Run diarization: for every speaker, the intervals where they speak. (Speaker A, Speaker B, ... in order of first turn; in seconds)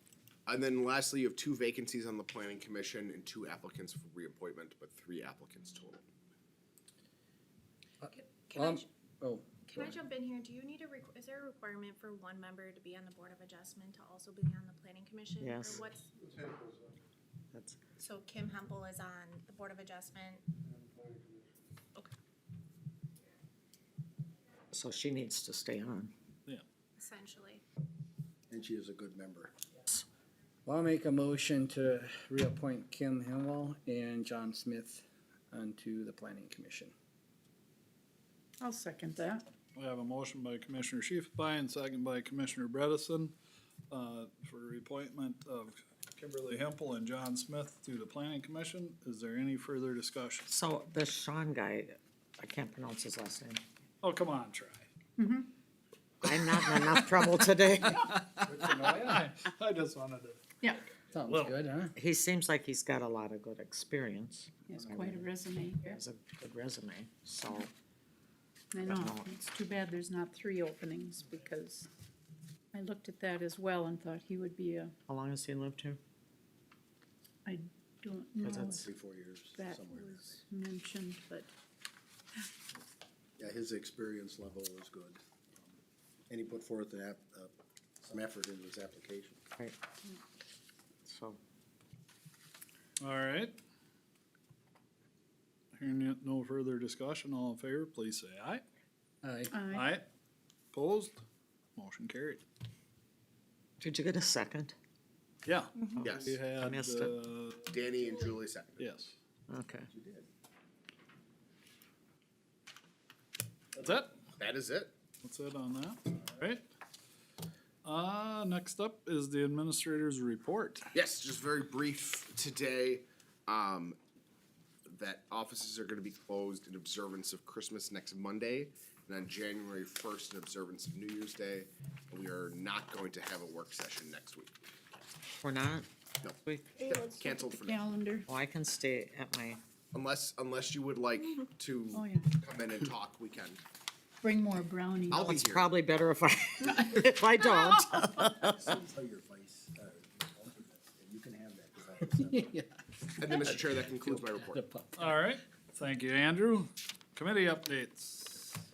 Speaker A: 0.5-6.0, 106.0-106.4, 107.7-108.8, 114.4-114.9, 120.9-124.0, 124.8-134.6, 136.9-137.8, 139.9-143.6, 145.1-145.7, 153.2-154.6
Speaker B: 8.0-9.9, 30.6-36.9, 58.4-59.3, 61.1-61.9, 99.2-99.5, 152.0-152.7, 153.2-155.2
Speaker C: 8.2-8.8, 9.6-16.5, 18.0-20.4, 27.0-27.6
Speaker D: 15.4-15.8, 17.5-17.8, 24.7-26.1, 50.5-53.6, 56.2-58.1, 62.0-65.3, 65.8-67.7, 68.8-69.4, 75.1-76.0, 78.4-78.8, 91.0-91.4, 103.8-104.7, 105.9-107.2, 109.5-109.9, 135.4-135.9, 136.4-136.7, 138.3-139.6, 145.1-148.7
Speaker E: 28.5-29.5, 78.8-80.3, 83.4-85.2, 86.3-89.4, 109.9-110.3, 148.4-152.5
Speaker F: 38.6-39.4, 55.2-55.5, 64.7-66.0, 68.7-71.9, 72.7-74.9, 77.4-78.9, 79.5-81.5, 99.5-99.9, 136.8-138.3, 141.9-142.3, 144.2-145.3
Speaker G: 39.7-43.3, 43.9-50.5, 54.0-54.9, 56.3-57.1, 57.8-60.4, 61.2-61.6, 93.0-93.5, 95.8-98.6, 99.7-100.0, 100.7-101.2, 101.8-102.4, 105.4-107.8, 108.8-109.1, 113.7-114.1, 115.2-116.6, 117.8-120.9, 155.0-158.6